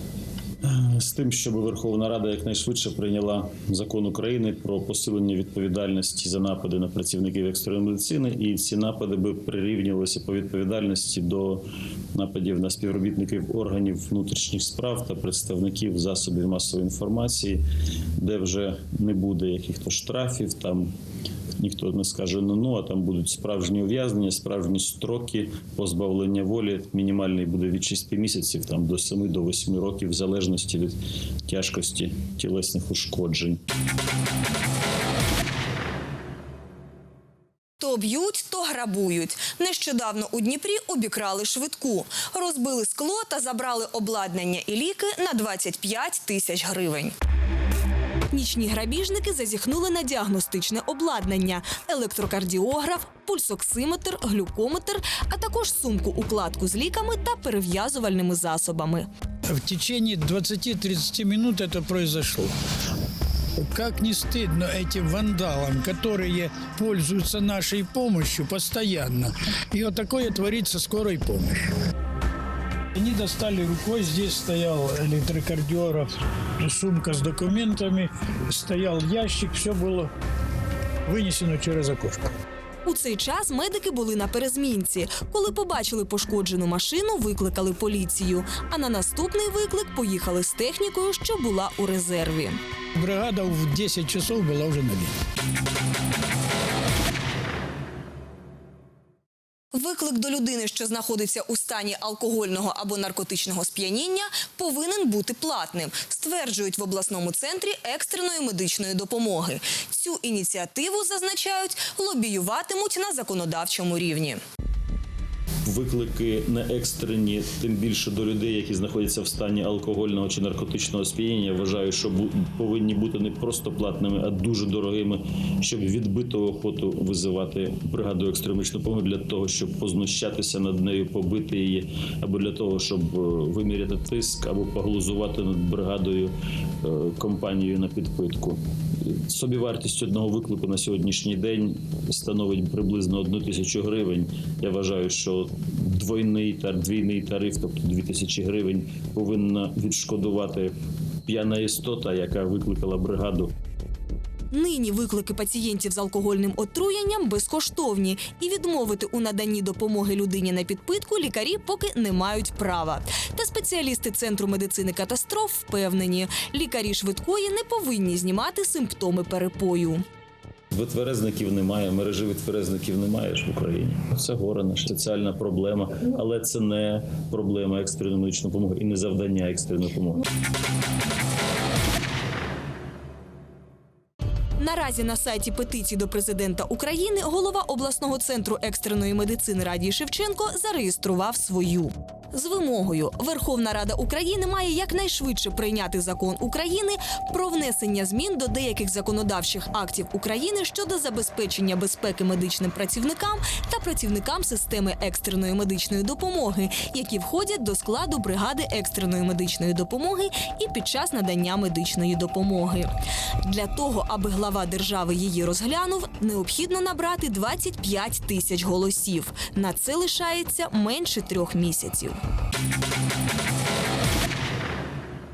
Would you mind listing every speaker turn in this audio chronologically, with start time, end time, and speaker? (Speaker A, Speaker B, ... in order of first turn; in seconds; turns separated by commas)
Speaker A: 0.6-11.6, Speaker A: 12.1-17.6, Speaker A: 18.2-20.9, Speaker A: 21.6-33.6, Speaker B: 37.8-47.1, Speaker B: 48.3-59.1, Speaker C: 59.5-62.5, Speaker C: 63.6-71.7, Speaker C: 72.9-80.1, Speaker C: 81.0-82.3, Speaker B: 82.8-92.6, Speaker C: 92.9-95.1, Speaker B: 99.7-114.4, Speaker A: 115.6-150.7, Speaker A: 151.2-153.5, Speaker B: 154.5-170.0, Speaker A: 170.7-180.2, Speaker B: 184.6-212.9, Speaker B: 213.4-222.2